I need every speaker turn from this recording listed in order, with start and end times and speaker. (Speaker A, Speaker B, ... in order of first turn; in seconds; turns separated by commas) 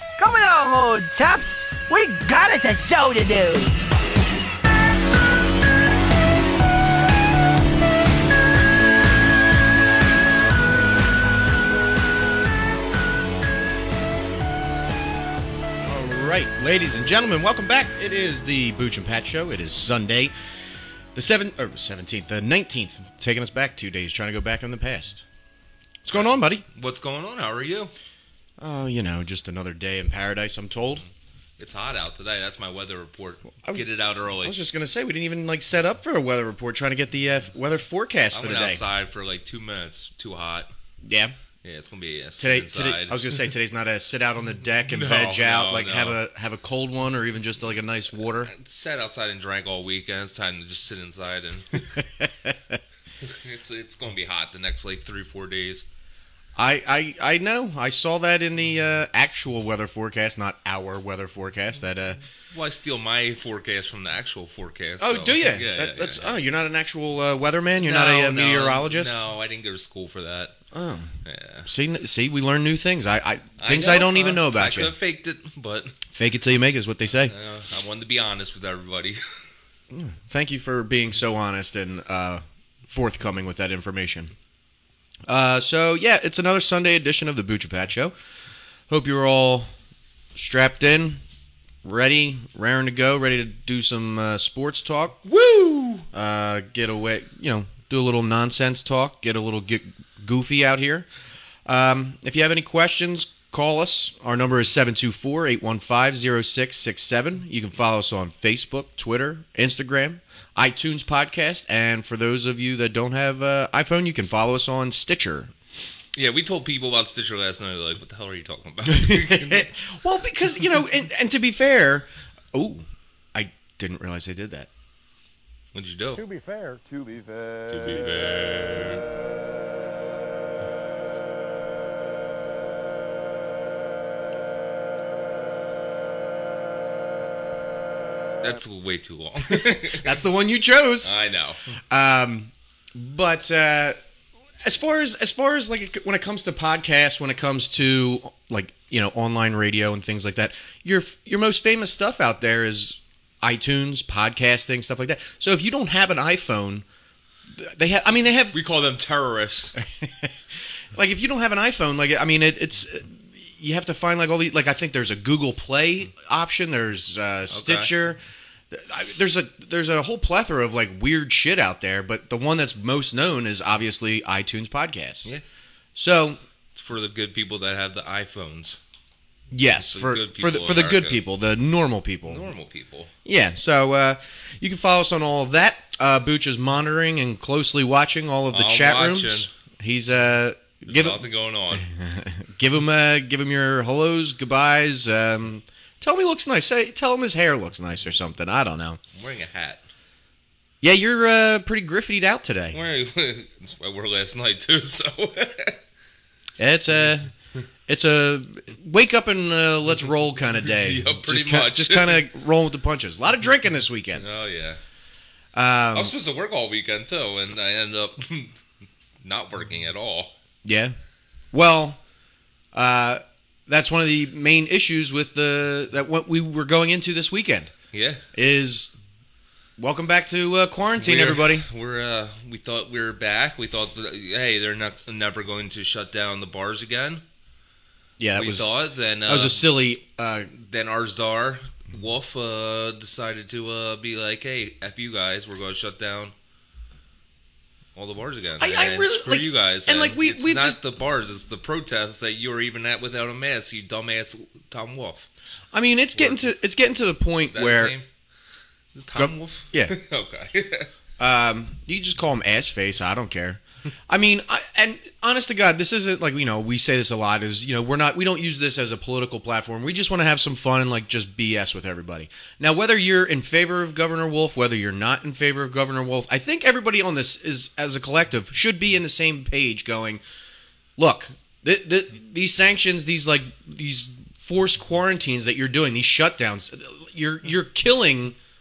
Speaker A: 0.2-3.7, Speaker B: 15.8-20.3, Speaker B: 21.1-25.2, Speaker B: 26.1-26.6, Speaker C: 26.7-27.9, Speaker B: 28.6-31.1, Speaker C: 31.6-34.6, Speaker B: 34.4-38.8, Speaker C: 38.3-40.7, Speaker B: 41.0-41.4, Speaker C: 41.6-43.2, Speaker B: 42.4-48.5, Speaker C: 44.9-46.2, Speaker C: 48.5-51.8, Speaker B: 52.0-52.8, Speaker C: 53.2-55.8, Speaker B: 56.6-62.2, Speaker C: 62.5-66.4, Speaker B: 65.0-69.2, Speaker C: 67.8-70.6, Speaker B: 70.7-74.9, Speaker C: 71.2-71.7, Speaker C: 73.6-75.9, Speaker B: 76.1-77.3, Speaker C: 77.2-79.2, Speaker B: 79.9-84.3, Speaker B: 85.3-88.1, Speaker B: 88.9-89.7, Speaker B: 90.3-91.2, Speaker B: 91.8-95.2, Speaker C: 95.3-96.0, Speaker B: 96.1-101.1, Speaker B: 101.7-115.5, Speaker C: 116.2-119.7, Speaker B: 118.9-124.7, Speaker C: 125.8-126.2, Speaker D: 126.1-129.0, Speaker C: 127.7-129.0, Speaker C: 138.4-140.2, Speaker B: 139.9-141.1, Speaker C: 141.0-141.6, Speaker B: 141.9-144.0, Speaker B: 144.6-156.8, Speaker B: 157.5-158.6, Speaker C: 158.5-159.8, Speaker B: 160.0-160.3, Speaker B: 160.9-168.2, Speaker C: 167.5-167.9, Speaker B: 168.7-175.3, Speaker B: 176.0-176.4, Speaker C: 176.8-178.8, Speaker B: 179.5-182.5, Speaker C: 179.9-181.2, Speaker C: 182.3-183.1, Speaker B: 183.3-199.0, Speaker C: 188.5-189.5, Speaker C: 190.9-191.8, Speaker C: 199.2-199.8, Speaker B: 200.8-202.8, Speaker C: 202.7-205.8, Speaker B: 206.6-207.3, Speaker B: 207.9-214.2, Speaker C: 210.7-212.2, Speaker C: 214.2-214.8, Speaker B: 215.5-216.1, Speaker C: 215.9-218.5, Speaker C: 219.2-220.3, Speaker B: 220.6-221.0, Speaker B: 221.5-222.0, Speaker B: 222.7-227.7, Speaker C: 227.9-228.2, Speaker B: 228.4-228.9, Speaker B: 229.8-231.7, Speaker C: 231.0-237.2, Speaker B: 238.2-238.7, Speaker C: 238.4-239.6, Speaker B: 239.3-240.5, Speaker C: 240.6-246.3, Speaker C: 247.9-255.3, Speaker B: 248.6-250.8, Speaker B: 255.7-257.9, Speaker C: 256.2-256.4, Speaker C: 257.5-258.1, Speaker C: 258.9-260.9, Speaker B: 259.1-260.0, Speaker B: 261.2-280.2, Speaker B: 281.0-288.4